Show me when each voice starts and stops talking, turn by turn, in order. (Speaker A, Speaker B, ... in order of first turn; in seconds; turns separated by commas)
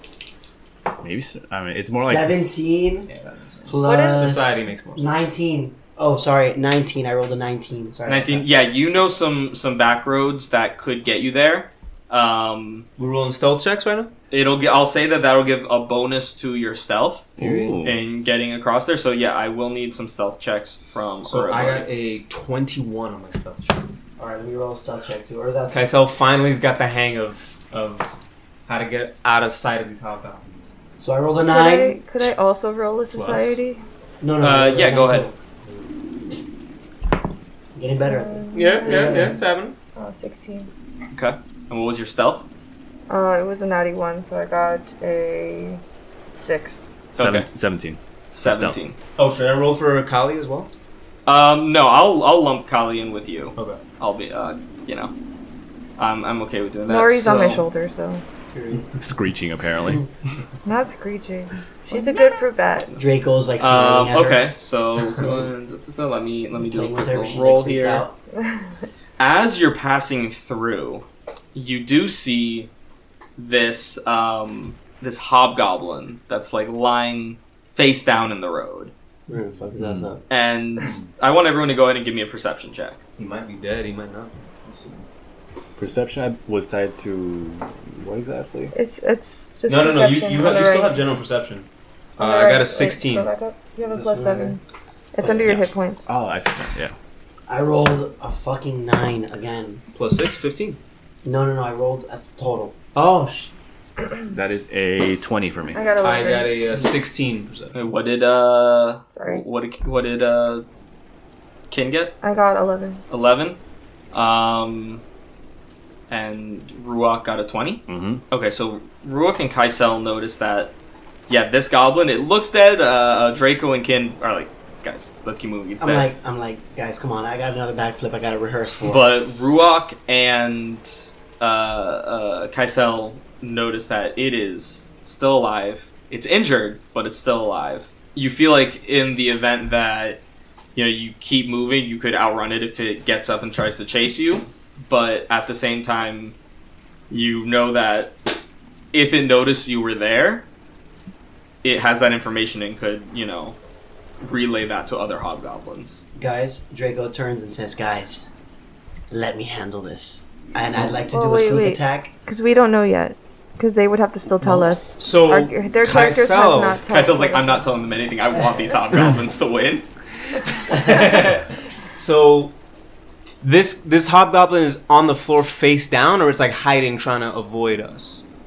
Speaker A: 1.0-2.9, Speaker B: 2.0-3.1, Speaker C: 3.1-5.1, Speaker B: 3.7-8.4, Speaker D: 3.8-4.3, Speaker E: 8.1-12.9, Speaker C: 13.0-14.1, Speaker E: 14.3-21.9, Speaker A: 17.4-18.0, Speaker C: 21.2-23.8, Speaker B: 24.2-25.9, Speaker C: 25.7-28.2, Speaker C: 28.7-30.7, Speaker B: 31.0-32.0, Speaker D: 31.4-33.8, Speaker C: 33.1-33.6, Speaker B: 34.2-35.4, Speaker E: 34.4-35.3, Speaker B: 37.8-39.4, Speaker D: 38.0-39.4, Speaker C: 38.5-39.8, Speaker D: 40.0-40.7, Speaker E: 41.1-42.5, Speaker D: 43.1-45.8, Speaker D: 46.4-46.9, Speaker E: 47.2-47.5, Speaker A: 47.2-48.8, Speaker E: 48.3-49.0, Speaker C: 49.2-50.7, Speaker E: 51.3-55.1, Speaker C: 53.6-53.8, Speaker E: 56.0-57.6, Speaker D: 56.9-58.2, Speaker B: 58.5-58.9, Speaker A: 59.0-60.1, Speaker D: 60.6-63.0, Speaker B: 63.0-64.5, Speaker E: 63.6-68.0, Speaker B: 66.7-68.2, Speaker D: 68.3-68.8, Speaker E: 69.2-72.7, Speaker E: 73.4-78.9, Speaker B: 79.3-80.2, Speaker A: 79.8-80.1, Speaker E: 80.3-83.0, Speaker C: 83.2-85.0, Speaker A: 85.8-88.7, Speaker D: 88.7-91.0, Speaker C: 89.7-91.7, Speaker C: 92.2-93.3, Speaker D: 92.2-94.6, Speaker B: 93.8-94.5, Speaker D: 95.1-96.1, Speaker B: 95.2-95.6, Speaker A: 95.5-96.9, Speaker B: 97.5-99.8, Speaker C: 99.9-100.8, Speaker B: 101.2-102.8, Speaker C: 103.0-103.5, Speaker A: 104.3-105.8, Speaker D: 105.7-106.7, Speaker C: 106.0-107.7, Speaker E: 107.7-110.7, Speaker D: 109.2-109.4, Speaker E: 111.7-112.2, Speaker D: 112.2-113.0, Speaker E: 113.1-113.6, Speaker E: 114.1-115.0, Speaker E: 116.1-120.7, Speaker A: 117.9-118.2, Speaker E: 121.3-126.1, Speaker B: 125.8-129.1, Speaker E: 128.8-140.2, Speaker E: 140.8-146.3, Speaker E: 147.1-148.2, Speaker E: 148.9-150.4, Speaker E: 151.6-153.6, Speaker E: 154.2-156.0, Speaker B: 156.2-158.2, Speaker B: 159.1-162.1, Speaker D: 161.1-167.6, Speaker C: 164.4-166.8, Speaker E: 166.9-169.8, Speaker C: 170.7-172.6, Speaker C: 173.4-178.2